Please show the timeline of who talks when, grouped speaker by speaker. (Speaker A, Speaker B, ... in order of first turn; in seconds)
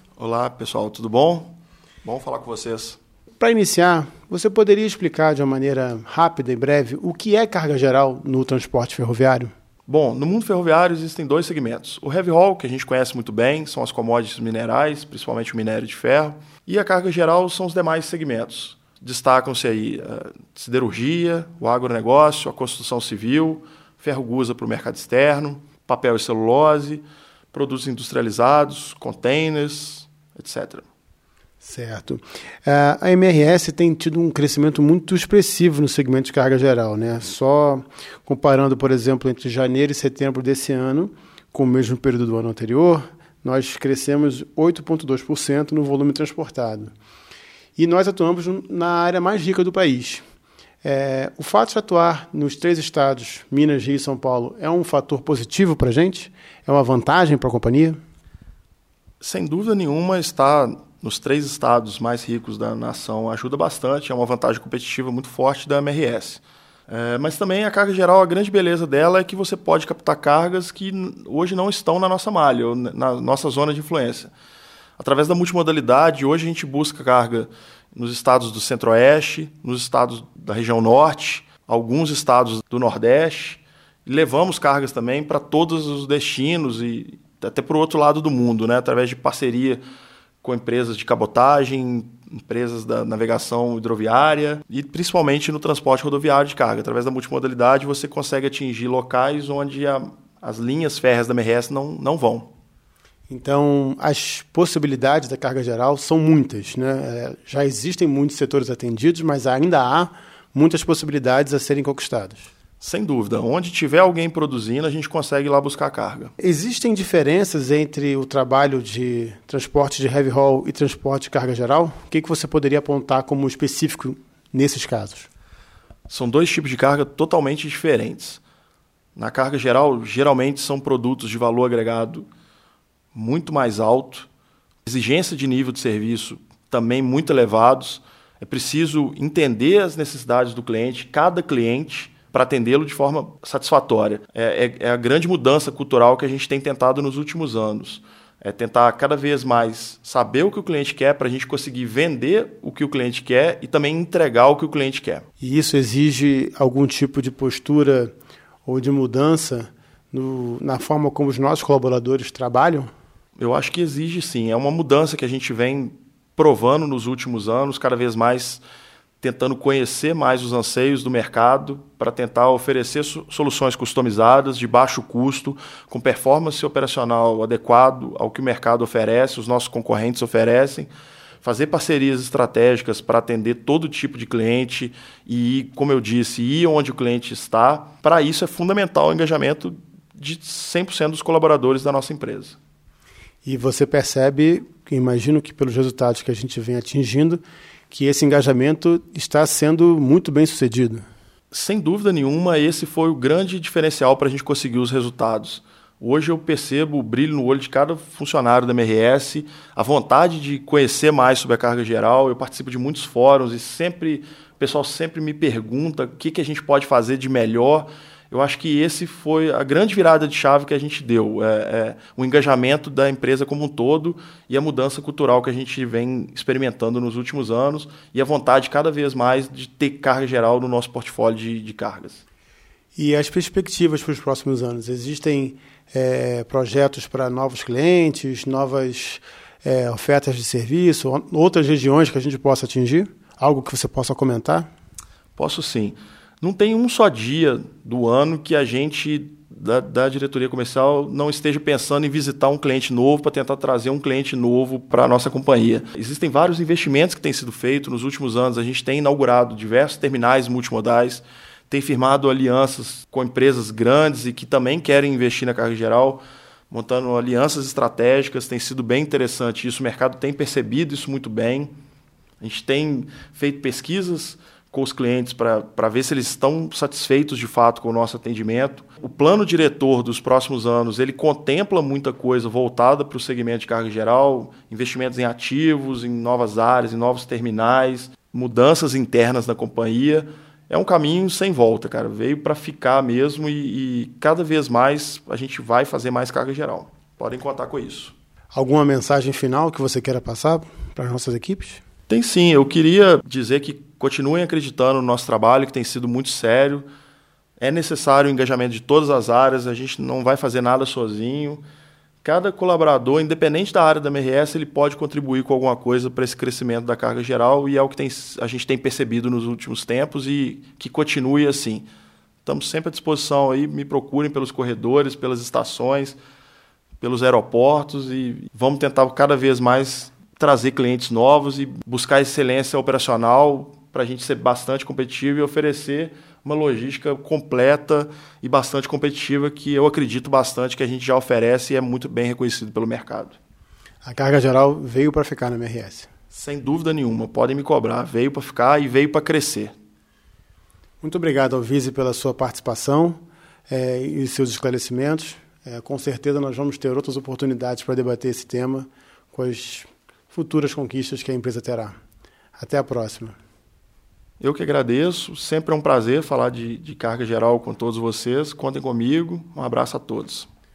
Speaker A: 0.2-1.5, 2.0-3.0, 9.9-30.9, 59.2-74.3, 75.0-89.8, 90.4-102.5, 112.8-116.3, 126.1-128.4, 129.1-132.3, 133.1-134.3, 134.8-155.2, 163.4-168.6, 169.2-180.9, 181.4-192.6, 201.5-232.2, 245.3-271.7, 272.4-298.1, 302.1-306.9, 307.6-311.6, 312.2-321.9, 322.4-326.2, 327.0-343.4, 346.3-349.7, 364.4-370.5
Speaker B: 3.4-9.5, 31.6-46.9, 47.8-50.2, 50.8-58.0, 103.3-112.5, 116.4-125.3, 155.4-158.1, 158.6-162.9, 193.4-201.0, 232.9-244.7, 298.5-301.8, 344.0-346.1, 351.0-353.2, 353.7-361.9, 362.6-363.4